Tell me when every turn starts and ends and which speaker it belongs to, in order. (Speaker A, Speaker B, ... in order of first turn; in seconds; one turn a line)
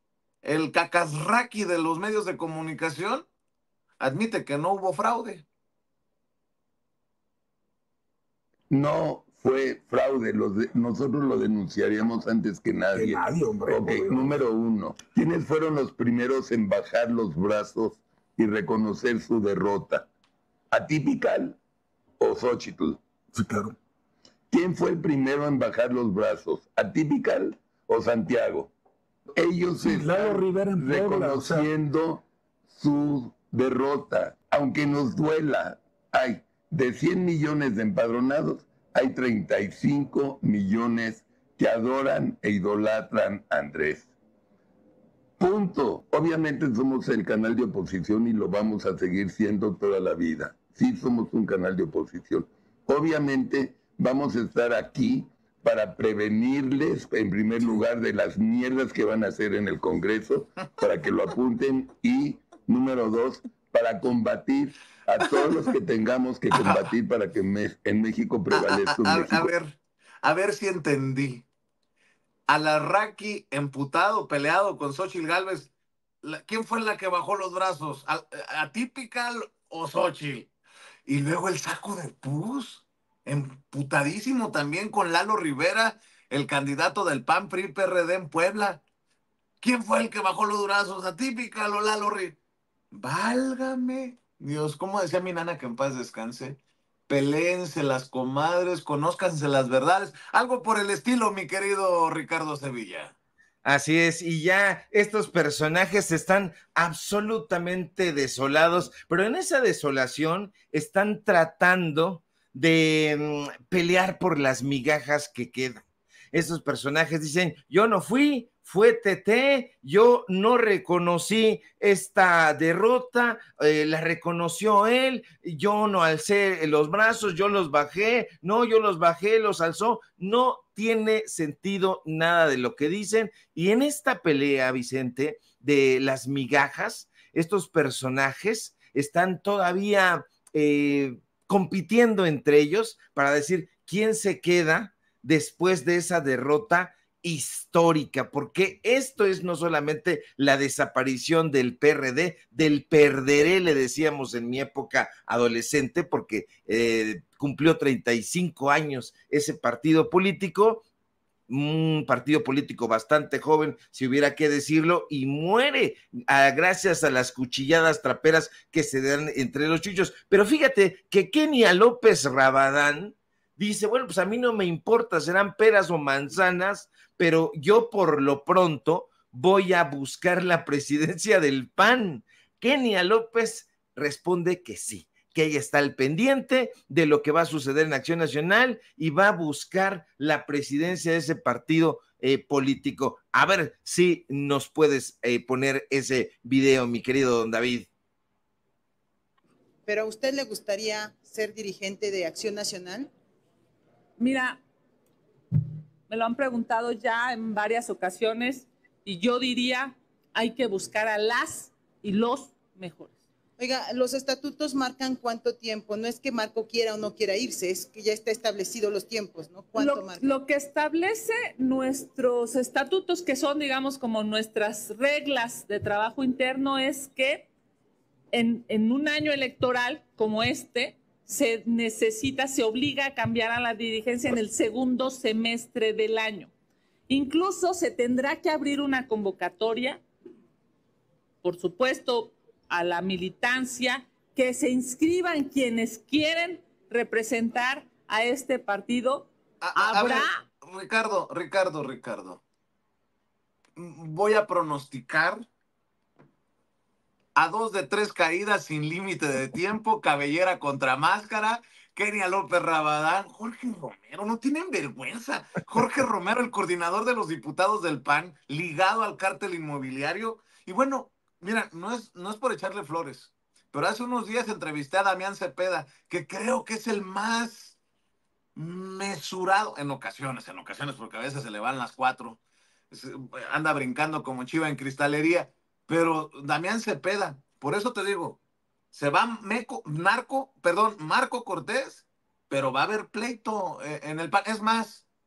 Speaker A: 0.4-3.2
Speaker A: 4.0-5.5
Speaker B: 8.7-20.1
Speaker C: 12.9-14.4
Speaker B: 20.7-21.6
Speaker B: 22.2-23.0
Speaker C: 23.3-23.8
Speaker B: 24.5-28.7
Speaker B: 29.4-44.1
Speaker C: 29.8-31.7
Speaker B: 45.4-69.5
Speaker A: 66.5-66.9
Speaker A: 68.5-71.5
Speaker A: 72.5-75.7
Speaker A: 76.2-80.5
Speaker A: 81.1-88.8
Speaker A: 89.6-92.4
Speaker A: 92.9-103.1
Speaker D: 103.6-160.8
Speaker D: 161.5-197.9
Speaker E: 199.9-203.1
Speaker F: 204.2-204.6
Speaker F: 206.1-213.1
Speaker E: 213.6-220.3
Speaker F: 219.8-227.5
Speaker F: 228.3-236.5
Speaker F: 237.1-240.0
Speaker F: 241.4-250.3
Speaker A: 249.6-252.4
Speaker A: 253.8-255.5
Speaker A: 257.3-277.8
Speaker A: 278.6-282.4
Speaker A: 282.9-288.4
Speaker A: 288.9-295.0